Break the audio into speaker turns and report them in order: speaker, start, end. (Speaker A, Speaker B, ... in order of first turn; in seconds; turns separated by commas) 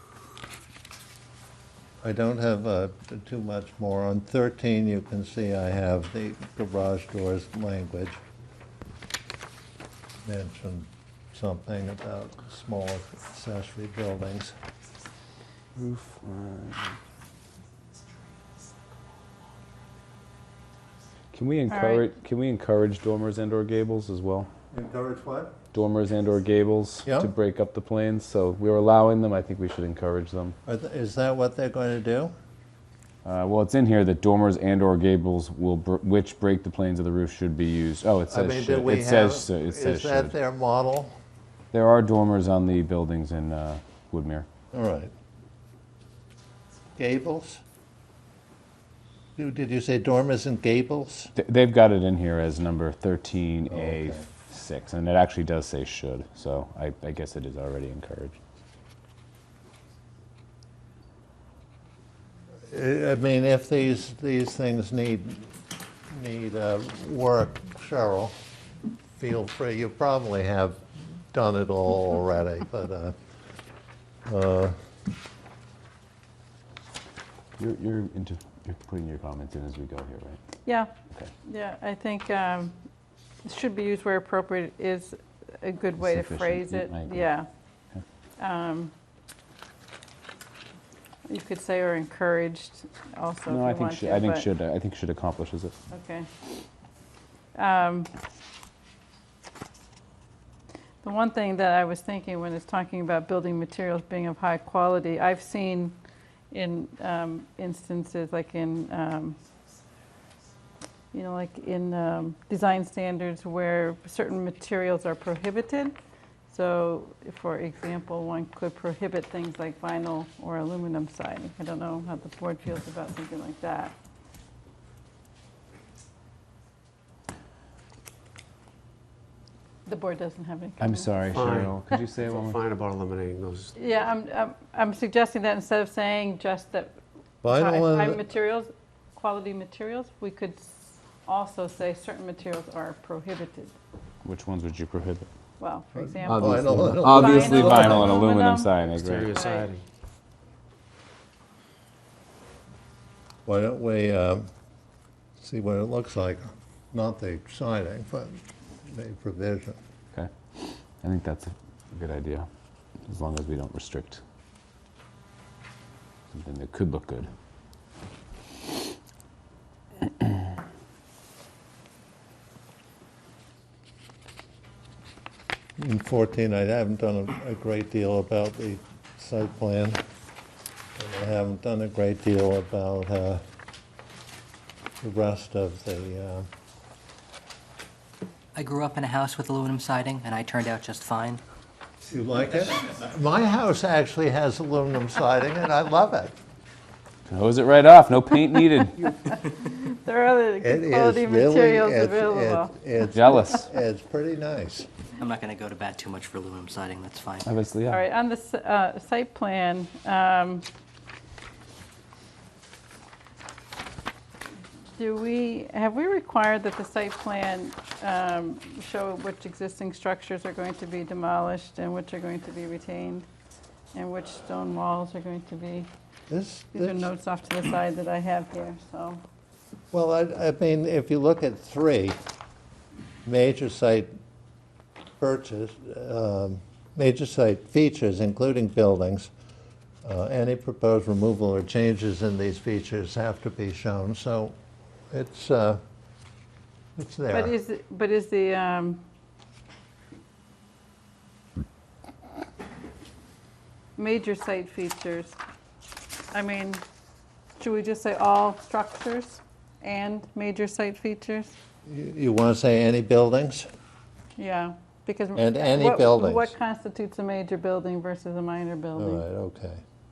Speaker A: 2.0-8.2, Speaker A: 10.2-14.5, Speaker B: 15.8-17.0, Speaker B: 21.3-24.5, Speaker C: 21.7-22.1, Speaker A: 24.7-25.5, Speaker B: 25.7-30.6, Speaker A: 27.0-27.3, Speaker A: 30.6-32.3, Speaker B: 33.2-40.3, Speaker A: 38.3-41.1, Speaker B: 41.7-44.5, Speaker A: 44.7-45.1, Speaker A: 47.0-47.6, Speaker A: 49.4-51.3, Speaker B: 51.4-58.4, Speaker A: 53.7-54.3, Speaker A: 62.7-65.5, Speaker A: 66.1-68.3, Speaker A: 69.2-73.1, Speaker A: 74.3-74.7, Speaker B: 77.6-80.4, Speaker C: 80.6-80.9, Speaker C: 81.4-82.7, Speaker C: 83.4-87.5, Speaker B: 86.0-87.3, Speaker C: 88.4-88.9, Speaker C: 91.3-94.5, Speaker B: 93.5-95.7, Speaker C: 95.9-96.3, Speaker C: 97.5-98.1, Speaker C: 101.0-106.0, Speaker C: 106.5-109.4, Speaker C: 111.1-115.9, Speaker C: 116.5-123.9, Speaker C: 129.8-131.4, Speaker B: 130.8-132.6, Speaker D: 131.3-133.7, Speaker C: 133.8-136.9, Speaker A: 137.4-138.2, Speaker C: 137.5-143.7, Speaker B: 144.2-145.3, Speaker C: 145.6-149.7, Speaker A: 145.9-148.2, Speaker B: 146.2-149.4, Speaker D: 148.9-149.8, Speaker A: 153.4-154.5, Speaker A: 155.4-159.8, Speaker B: 160.1-162.5, Speaker B: 163.1-164.2, Speaker B: 166.3-167.3, Speaker A: 175.8-180.0, Speaker A: 181.0-183.4, Speaker A: 185.0-186.5, Speaker E: 188.5-191.4, Speaker A: 192.0-196.3, Speaker B: 197.3-199.0, Speaker C: 198.8-202.7, Speaker A: 200.6-204.9, Speaker B: 203.1-203.6, Speaker E: 205.2-207.5, Speaker B: 207.4-208.0, Speaker C: 207.9-210.6, Speaker C: 214.9-223.2, Speaker C: 223.9-225.9, Speaker A: 226.3-227.1, Speaker C: 226.7-229.2, Speaker A: 229.9-232.2, Speaker A: 233.2-234.1, Speaker A: 235.2-239.3, Speaker A: 240.0-244.6, Speaker A: 245.1-245.8, Speaker A: 247.0-247.5, Speaker C: 247.3-249.0, Speaker C: 254.0-255.4, Speaker C: 256.3-256.8, Speaker C: 257.6-261.5, Speaker A: 261.9-263.7, Speaker C: 264.4-269.2, Speaker A: 265.3-266.5, Speaker A: 268.9-269.8